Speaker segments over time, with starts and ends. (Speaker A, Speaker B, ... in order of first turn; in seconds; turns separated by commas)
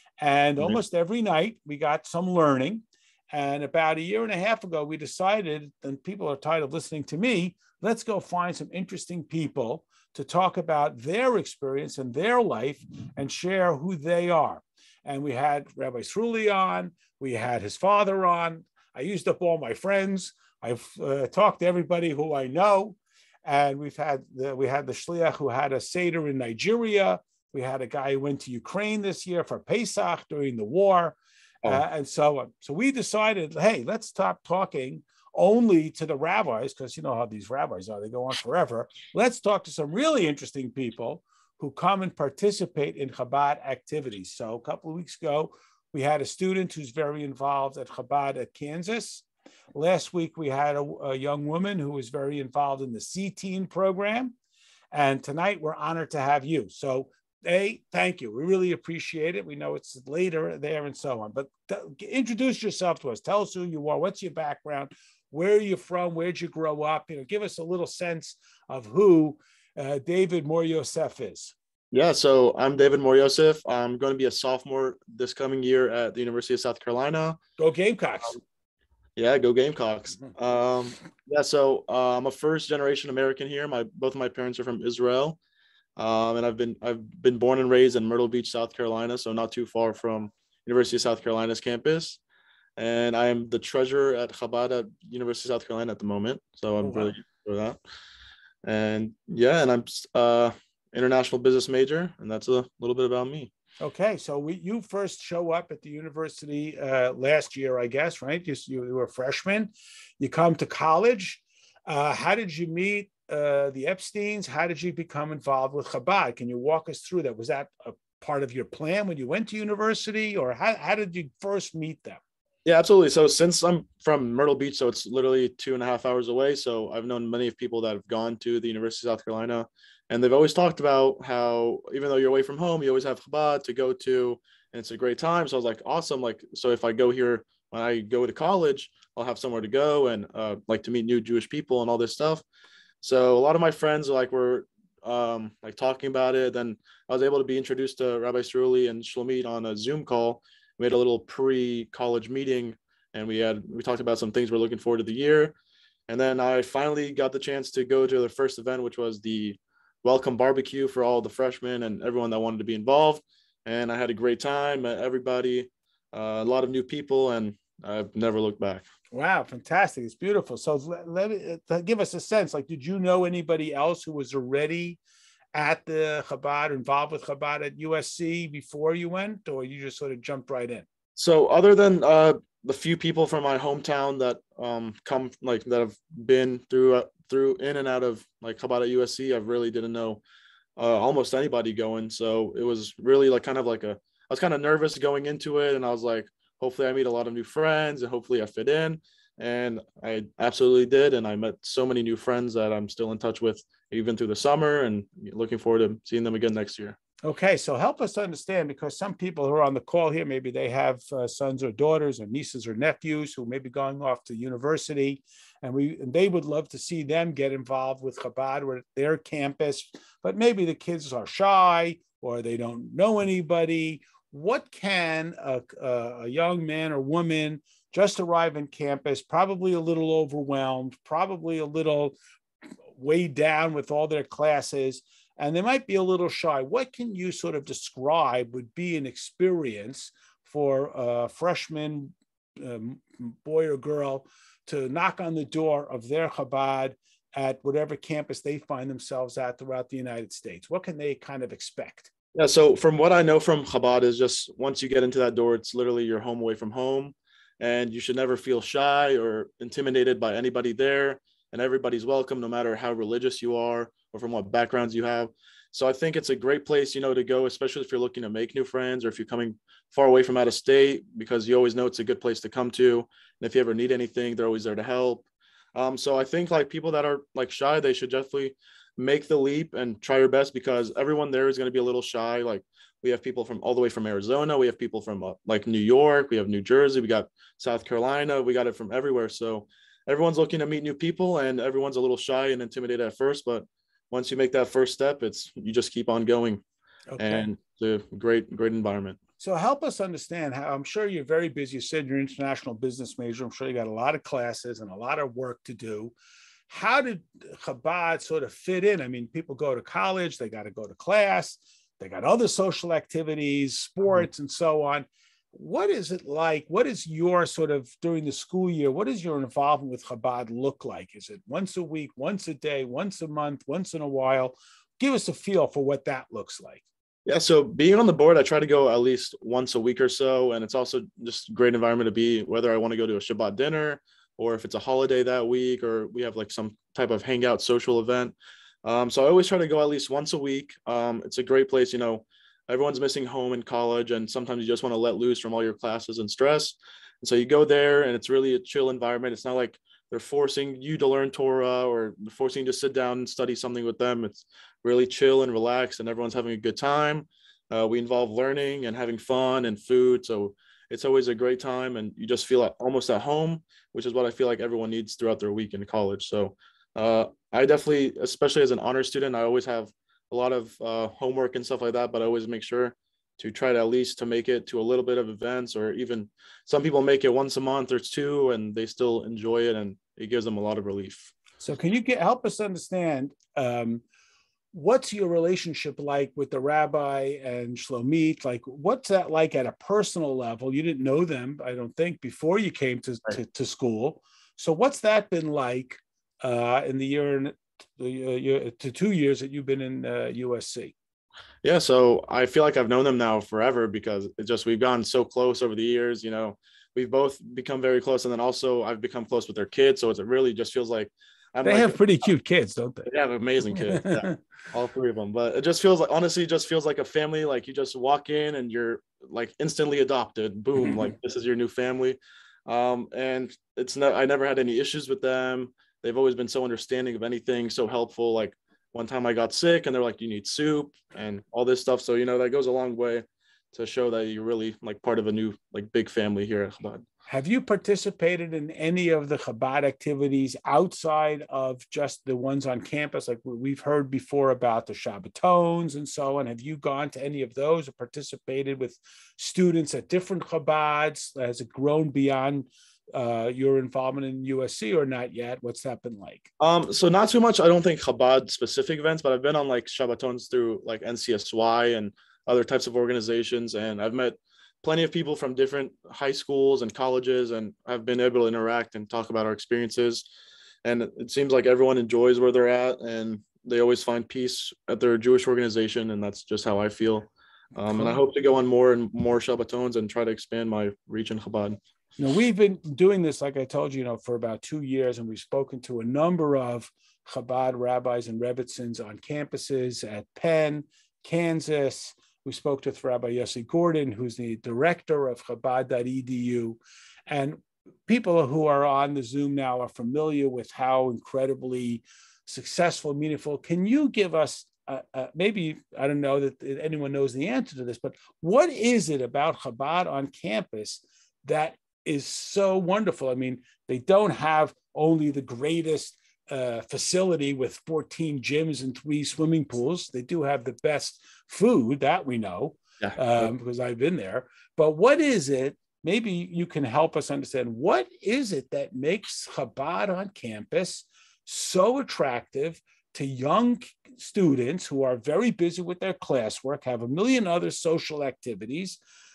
Speaker A: 0.2-54.3, Speaker A: 54.9-71.5, Speaker B: 71.9-77.4, Speaker A: 77.6-78.4, Speaker B: 79.2-85.4, Speaker B: 86.0-92.2, Speaker B: 92.8-97.8, Speaker A: 96.8-97.1, Speaker B: 98.6-103.5, Speaker A: 103.8-122.2, Speaker B: 122.6-142.4, Speaker B: 143.0-155.6, Speaker B: 156.1-168.8, Speaker A: 169.1-175.0, Speaker A: 175.5-180.8, Speaker B: 181.2-190.2, Speaker B: 190.8-207.0, Speaker A: 207.2-232.2, Speaker A: 232.9-252.1, Speaker B: 252.3-296.6, Speaker A: 297.1-297.4, Speaker B: 297.2-299.2, Speaker A: 299.4-306.1, Speaker A: 306.7-326.8, Speaker B: 327.2-381.3, Speaker A: 381.6-384.0, Speaker A: 384.7-400.9, Speaker B: 401.6-412.0, Speaker A: 411.6-413.1, Speaker B: 413.1-437.0, Speaker A: 413.7-414.4, Speaker A: 420.8-421.1, Speaker A: 437.3-456.5, Speaker B: 456.6-470.2, Speaker B: 470.8-481.8, Speaker A: 477.9-478.2, Speaker A: 482.2-539.0, Speaker B: 523.0-523.5